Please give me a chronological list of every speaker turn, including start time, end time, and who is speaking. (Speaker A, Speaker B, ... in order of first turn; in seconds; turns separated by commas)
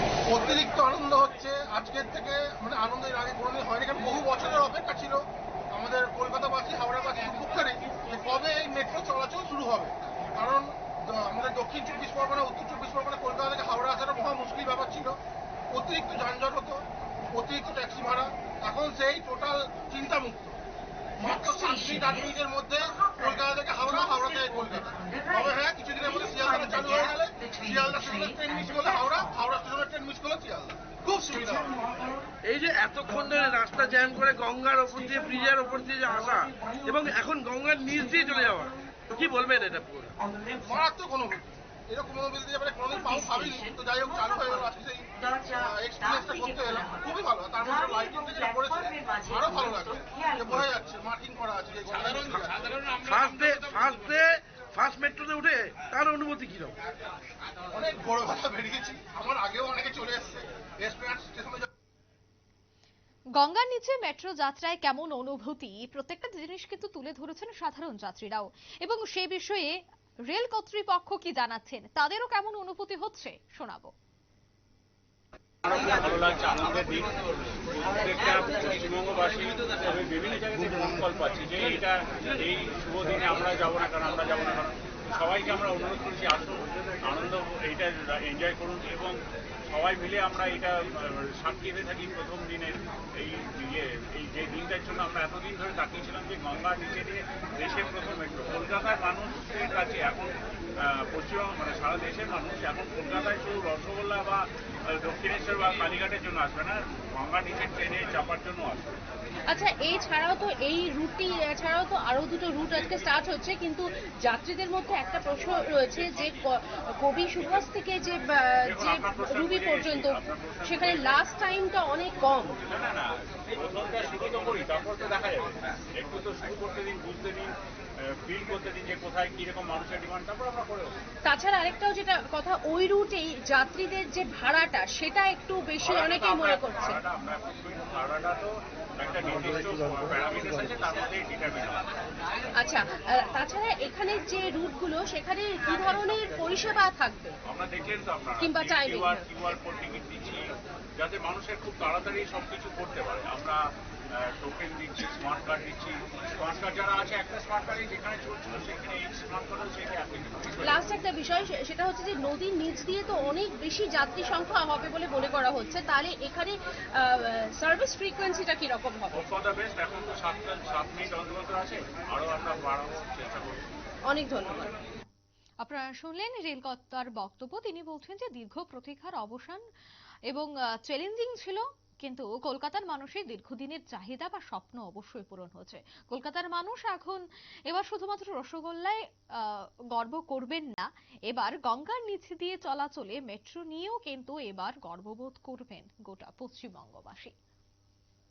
Speaker A: 0.3-15.2, Speaker A: 15.7-20.6, Speaker A: 21.2-31.7, Speaker B: 32.4-40.1, Speaker A: 40.6-53.1, Speaker B: 53.0-56.8, Speaker A: 57.7-61.7, Speaker C: 63.4-69.8, Speaker C: 70.3-73.9, Speaker D: 75.6-89.2, Speaker D: 89.7-100.3, Speaker D: 101.1-109.0, Speaker E: 109.5-122.6, Speaker D: 118.7-121.2, Speaker D: 122.6-127.5, Speaker D: 128.2-130.9, Speaker E: 131.2-137.0, Speaker D: 135.8-141.8, Speaker E: 142.6-147.3, Speaker D: 147.5-150.4, Speaker E: 148.4-149.4, Speaker D: 151.0-153.6, Speaker D: 154.2-160.9, Speaker E: 160.6-169.2, Speaker D: 169.1-173.6, Speaker E: 174.1-174.7, Speaker C: 175.6-179.6, Speaker C: 180.3-197.3